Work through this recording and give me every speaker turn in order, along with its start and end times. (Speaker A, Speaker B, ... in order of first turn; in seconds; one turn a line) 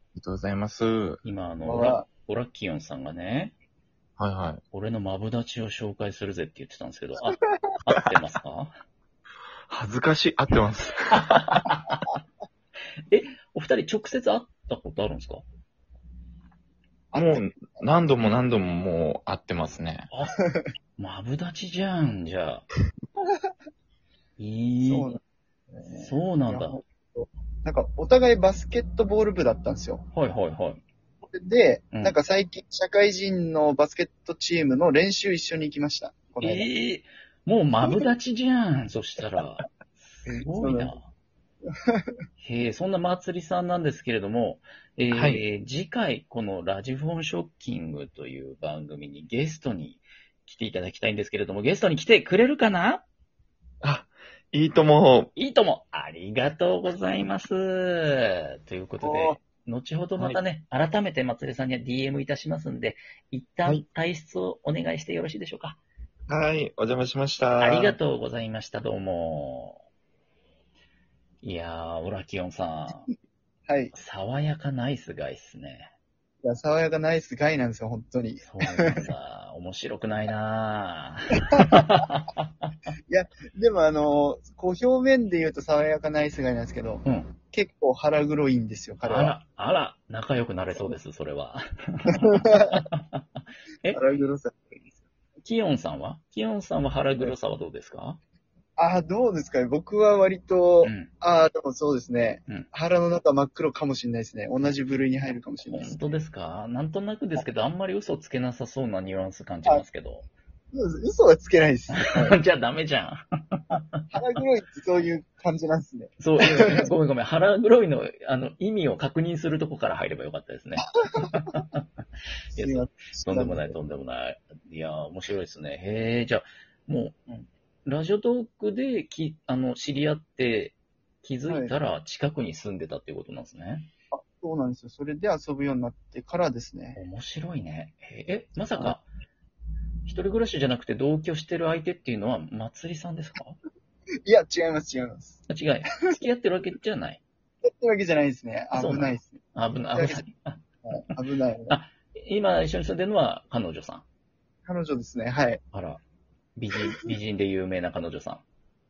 Speaker A: 0.2-1.2
Speaker B: 1.2-3.5
Speaker C: 1.6-2.0
Speaker A: 4.2-4.6
Speaker B: 4.7-8.7
Speaker A: 9.7-11.6
Speaker B: 11.2-12.1
Speaker B: 13.1-15.4
Speaker C: 17.1-17.6
Speaker A: 17.1-20.1
Speaker B: 20.1-20.4
Speaker C: 20.4-20.7
Speaker B: 21.0-22.6
Speaker B: 24.4-25.1
Speaker C: 24.8-25.2
Speaker C: 25.7-30.0
Speaker B: 25.9-26.8
Speaker B: 30.1-30.8
Speaker C: 31.2-36.7
Speaker B: 36.4-41.1
Speaker C: 37.8-38.1
Speaker C: 40.2-41.0
Speaker C: 41.9-42.1
Speaker B: 42.4-53.0
Speaker A: 45.1-45.4
Speaker A: 53.8-55.3
Speaker B: 55.4-65.8
Speaker C: 59.0-59.4
Speaker A: 66.3-68.0
Speaker B: 67.6-69.8
Speaker B: 71.4-73.1
Speaker C: 73.7-73.9
Speaker B: 73.9-75.9
Speaker C: 76.4-79.0
Speaker B: 78.4-82.5
Speaker C: 81.5-82.1
Speaker C: 83.1-89.4
Speaker B: 87.0-87.3
Speaker B: 89.0-94.0
Speaker C: 92.1-92.8
Speaker C: 93.9-94.6
Speaker B: 95.4-98.2
Speaker C: 98.8-106.2
Speaker B: 100.8-101.1
Speaker B: 105.6-110.2
Speaker C: 110.7-112.4
Speaker B: 112.0-114.0
Speaker C: 114.1-116.9
Speaker B: 116.2-121.8
Speaker C: 121.1-121.6
Speaker C: 122.5-123.8
Speaker B: 122.5-127.2
Speaker B: 127.8-133.9
Speaker C: 131.5-131.7
Speaker C: 134.1-137.0
Speaker B: 136.9-139.1
Speaker B: 140.1-143.6
Speaker C: 144.2-145.4
Speaker B: 145.5-147.2
Speaker C: 147.6-149.4
Speaker B: 148.7-151.1
Speaker C: 149.9-150.2
Speaker C: 150.8-151.8
Speaker B: 151.7-154.0
Speaker C: 154.7-155.6
Speaker B: 155.7-156.0
Speaker B: 156.6-158.4
Speaker C: 156.8-157.1